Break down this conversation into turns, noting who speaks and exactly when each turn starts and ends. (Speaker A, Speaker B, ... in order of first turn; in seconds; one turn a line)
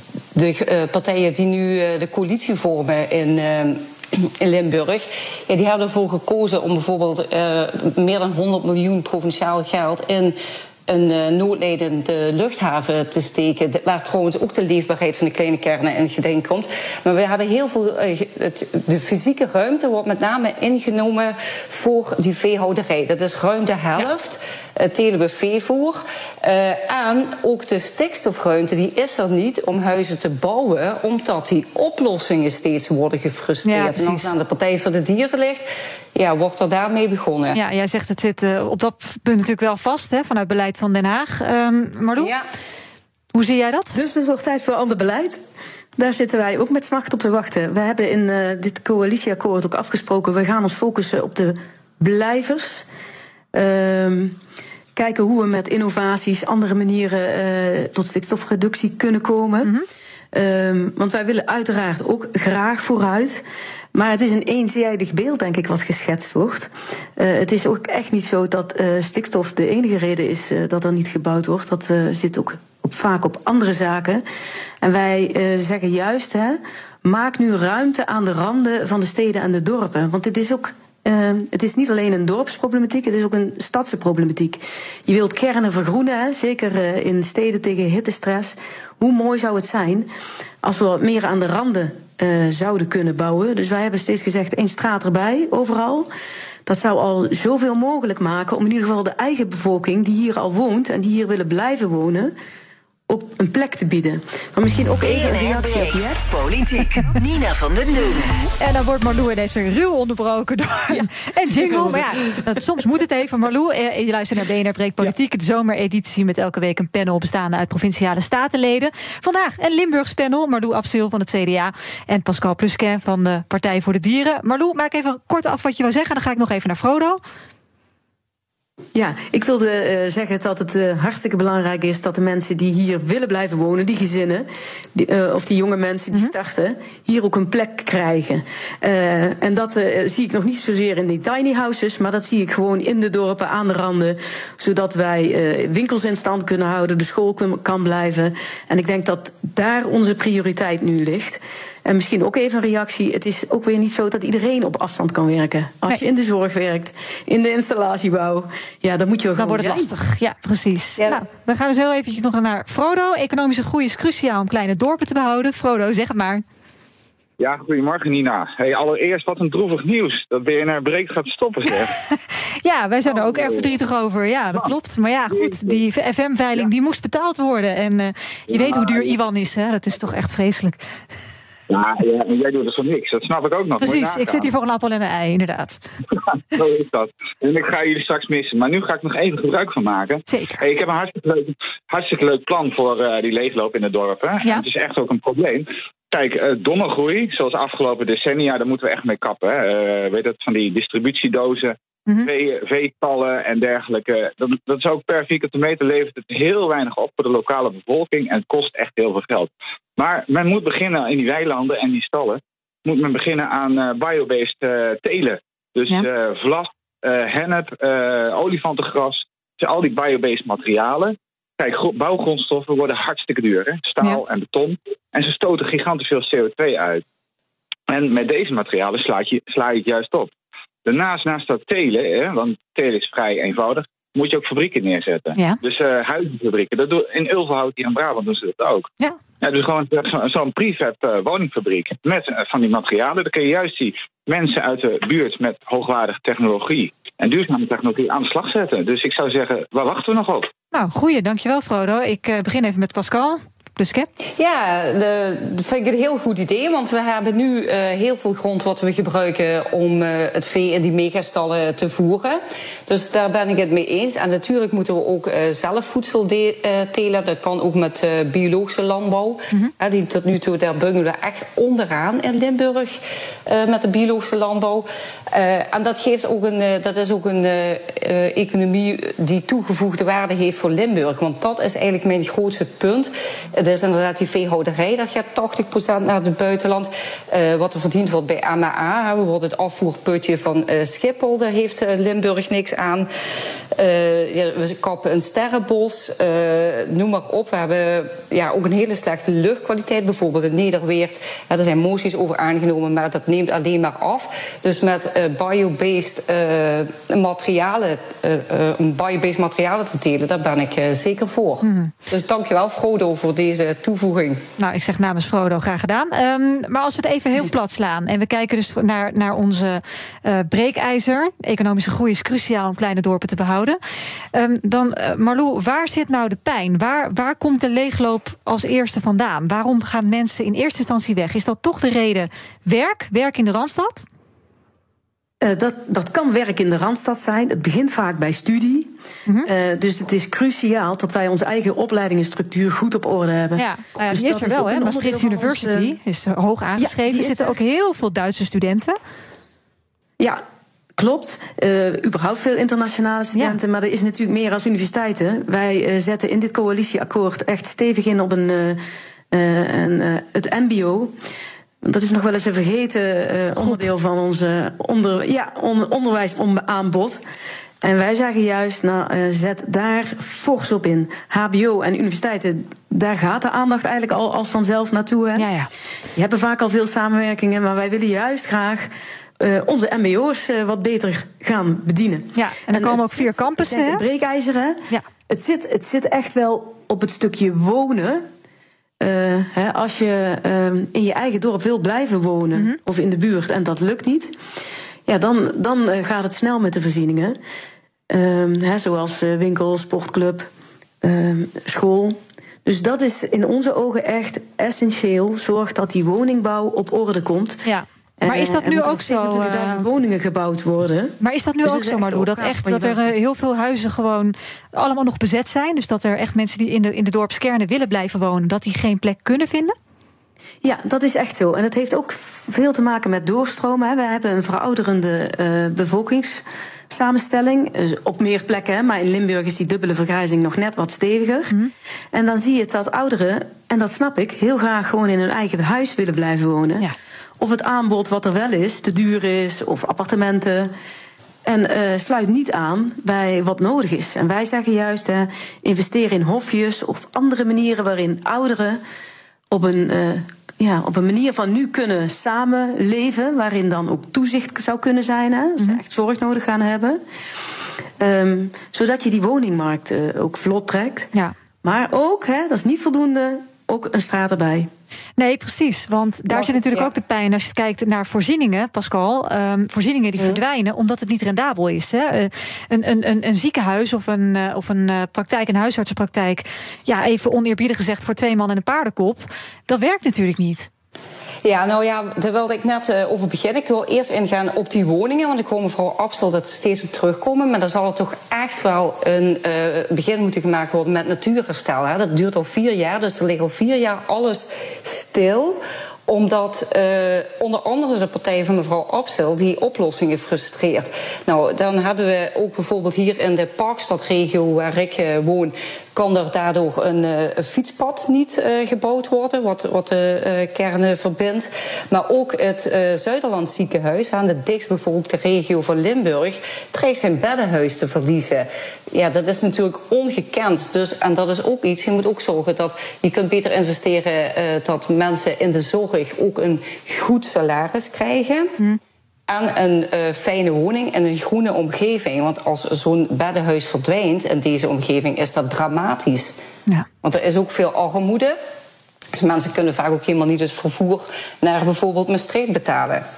Speaker A: 0.3-37.6
Speaker B: 33.7-34.3
Speaker B: 37.5-42.3
Speaker A: 42.2-42.4
Speaker B: 43.3-44.0
Speaker C: 43.9-45.4
Speaker C: 46.0-52.9
Speaker C: 53.5-54.4
Speaker C: 55.0-59.7
Speaker C: 60.3-74.2
Speaker C: 74.8-90.1
Speaker C: 90.6-96.1
Speaker C: 96.7-102.3
Speaker C: 103.1-106.3
Speaker D: 105.0-108.3
Speaker B: 108.6-127.2
Speaker C: 111.6-112.1
Speaker C: 128.9-159.9
Speaker B: 159.4-166.4
Speaker E: 167.4-171.9
Speaker B: 172.6-180.8
Speaker E: 173.1-173.8
Speaker E: 175.3-175.8
Speaker E: 178.5-179.2
Speaker E: 181.7-184.5
Speaker B: 183.8-185.8
Speaker E: 186.5-227.0
Speaker B: 190.3-190.6
Speaker E: 227.9-230.3
Speaker E: 230.8-238.9
Speaker E: 239.4-250.5
Speaker B: 250.7-254.1
Speaker A: 254.4-293.1
Speaker A: 293.7-314.4
Speaker B: 311.6-311.9
Speaker B: 314.6-323.8
Speaker B: 324.3-334.1
Speaker C: 335.4-338.9
Speaker C: 339.4-345.9
Speaker B: 343.6-349.0
Speaker C: 346.8-347.5
Speaker C: 351.0-361.1
Speaker C: 361.8-367.2
Speaker B: 363.6-363.9
Speaker C: 367.8-375.5
Speaker B: 375.4-375.7
Speaker C: 376.1-388.3
Speaker B: 382.4-384.0
Speaker C: 389.0-394.3
Speaker C: 395.1-397.4
Speaker C: 398.1-400.5
Speaker C: 401.0-407.6
Speaker B: 407.6-409.9
Speaker C: 408.2-413.1
Speaker B: 411.2-419.8
Speaker C: 420.6-431.6
Speaker C: 432.1-436.9
Speaker C: 437.4-440.7
Speaker C: 441.4-448.8
Speaker C: 449.5-457.0
Speaker C: 458.0-461.1
Speaker C: 461.6-464.7
Speaker B: 465.2-480.7
Speaker A: 481.4-528.5
Speaker A: 529.3-536.4
Speaker A: 537.0-538.4
Speaker A: 539.1-543.0